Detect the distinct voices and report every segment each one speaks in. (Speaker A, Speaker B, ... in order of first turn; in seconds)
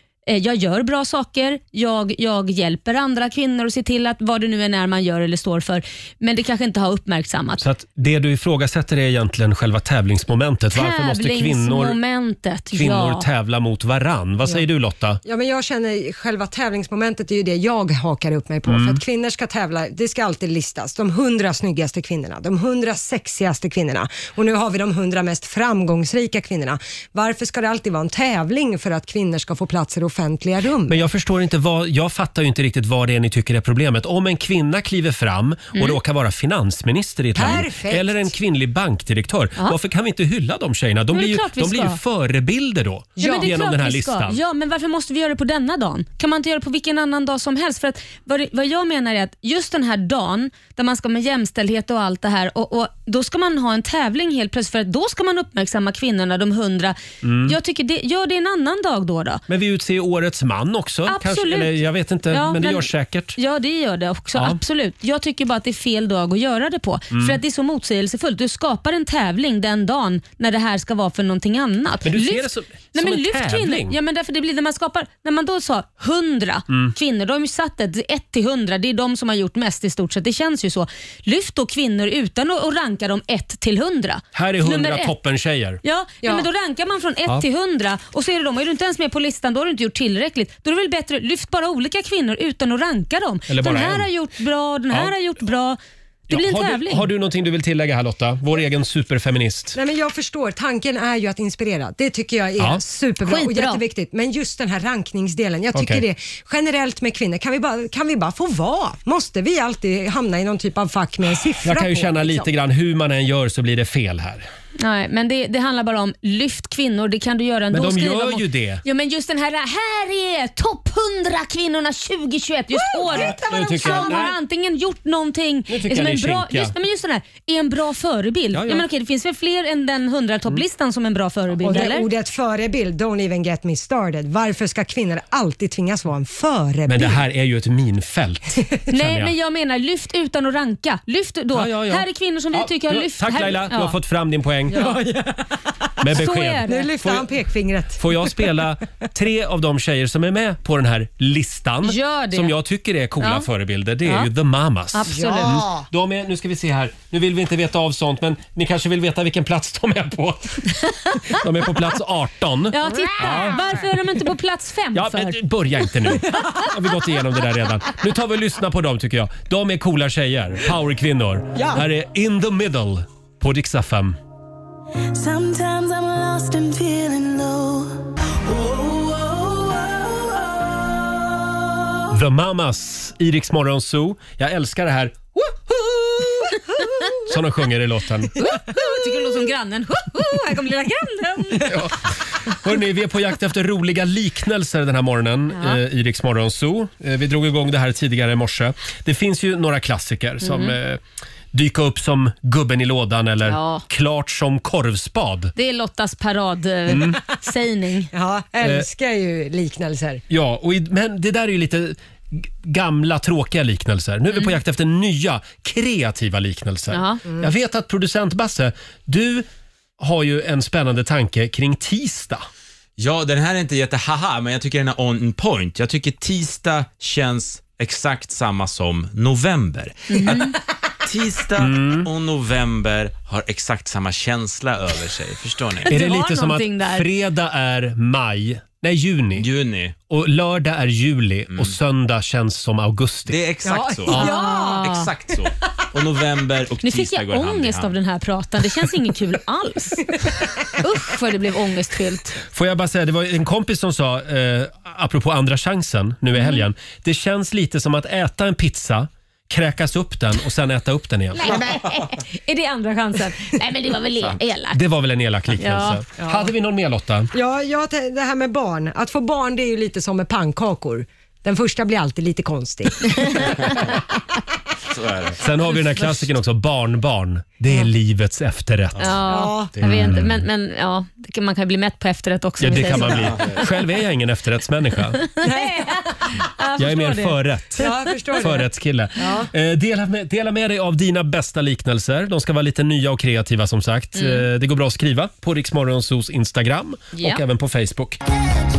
Speaker A: 0.3-7.6, 10.7-13.2, 41.1-42.0, 43.2-59.4, 61.1-61.8, 62.3-85.1, 85.8-95.8, 96.3-97.1, 103.2-103.8, 114.8-132.1, 138.9-143.9, 146.1-146.9, 151.8-152.5, 153.2-153.4, 154.0-154.3, 154.9-155.6, 160.8-161.3, 162.7-165.4, 188.4-191.7, 195.5-195.8, 200.4-200.8, 203.4-203.8, 205.6-208.1, 216.9-217.2, 230.1-230.5, 235.9-237.1, 244.1-245.1, 246.8-250.1, 250.8-252.4, 256.4-256.6, 261.3-264.8, 265.6-266.0, 273.3-273.5, 279.0-283.4, 285.2-287.9, 294.1-294.4, 297.1-297.4
Speaker B: 7.6-12.0, 12.7-15.2, 18.6-19.0, 30.9-44.4, 57.2-57.5, 59.5-63.4, 67.1-67.4, 72.0-74.0, 76.7-76.9, 84.3-85.8, 93.5-94.1, 94.9-95.2, 96.3-99.8, 105.7-106.0, 111.6-114.5, 117.7-118.8, 123.1-124.4, 125.7-126.7, 128.5-128.8, 136.9-139.3, 141.5-144.9, 146.0-147.3, 148.0-160.7, 161.3-163.6, 164.9-174.2, 182.1-186.6, 187.2-188.4, 191.6-201.0, 201.5-205.5, 206.9-207.2, 208.6-208.9, 210.3-219.5, 220.0-222.4, 231.6-232.1, 235.8-239.5, 240.1-243.4, 252.5-261.6, 264.7-267.3, 275.4-279.2, 279.8-280.4, 282.6-285.2, 286.8-298.2
Speaker C: 15.2-31.0, 37.3-38.3, 43.2-43.5, 99.7-112.5, 123.0-123.4, 131.6-137.2, 144.7-145.9, 146.7-148.6, 155.1-155.8, 163.1-163.6, 166.3-166.6, 171.6-171.8, 208.1-210.2, 243.6-244.8, 261.4-262.0, 266.2-266.5, 267.3-273.8, 279.3-279.7, 285.4-286.0, 287.8-288.6, 289.2-289.5
Speaker D: 175.1-179.9
Speaker E: 223.0-235.9, 239.4-239.9, 243.3-247.9, 274.9-275.4, 283.2-283.6